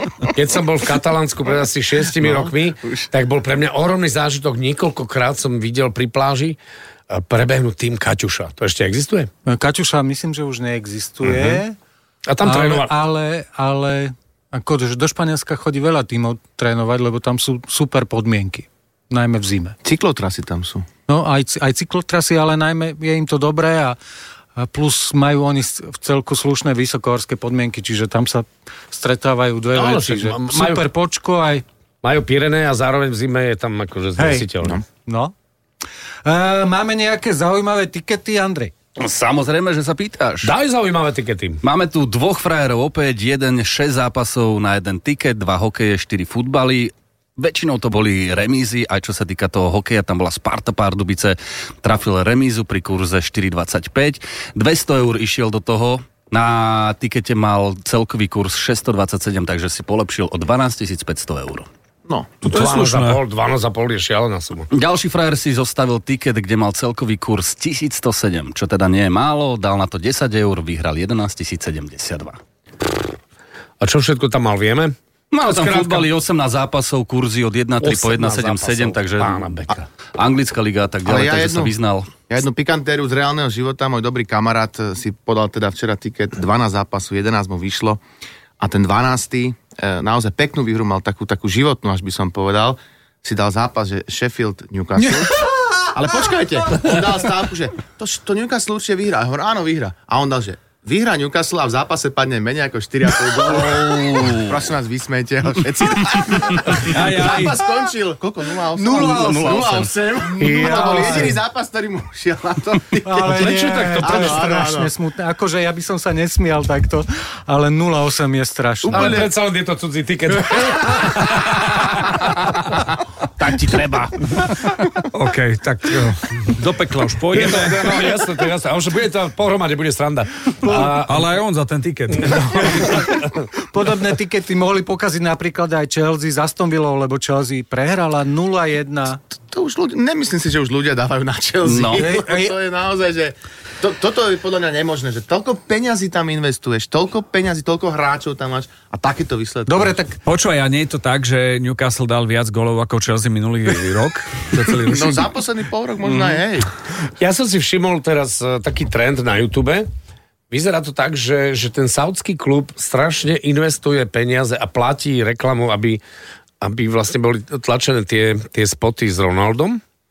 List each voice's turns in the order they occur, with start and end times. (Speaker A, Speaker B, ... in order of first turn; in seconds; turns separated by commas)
Speaker A: 0.3-6.6, Speaker B: 2.2-3.0, Speaker A: 7.1-9.3, Speaker C: 9.4-11.8, Speaker A: 11.2-11.6, Speaker A: 12.3-12.9, Speaker C: 12.4-19.8, Speaker B: 19.8-20.9, Speaker C: 21.1-24.0, Speaker C: 24.6-31.6, Speaker A: 29.7-30.9, Speaker A: 32.0-34.8, Speaker C: 34.2-34.5, Speaker C: 35.0-35.3, Speaker C: 36.2-38.7, Speaker D: 39.0-40.5, Speaker A: 40.4-41.6, Speaker D: 41.6-61.7, Speaker B: 62.1-62.3, Speaker E: 62.4-63.2, Speaker A: 62.4-64.7, Speaker D: 64.7-72.4, Speaker A: 73.8-76.1, Speaker D: 75.3-79.5, Speaker A: 77.8-79.9, Speaker D: 80.1-82.1, Speaker B: 81.0-81.7, Speaker B: 82.3-88.0, Speaker B: 88.6-113.4, Speaker C: 95.1-95.8, Speaker D: 103.4-104.6, Speaker D: 106.1-106.7, Speaker E: 106.8-107.6, Speaker C: 108.8-111.3, Speaker D: 108.9-109.9, Speaker A: 110.4-111.3, Speaker C: 113.0-119.2, Speaker A: 113.2-114.4, Speaker B: 114.0-114.9, Speaker B: 118.8-119.3, Speaker A: 118.9-122.7, Speaker A: 123.4-124.3, Speaker E: 125.1-128.0, Speaker A: 127.3-131.2, Speaker E: 130.8-133.1, Speaker A: 132.2-133.2, Speaker C: 133.6-139.2, Speaker B: 139.4-150.0, Speaker D: 141.6-142.1, Speaker C: 141.9-142.6, Speaker C: 149.7-150.2, Speaker E: 150.2-155.3, Speaker B: 154.8-156.7, Speaker D: 156.0-156.4, Speaker A: 157.2-159.9, Speaker A: 160.5-166.0, Speaker A: 166.6-169.8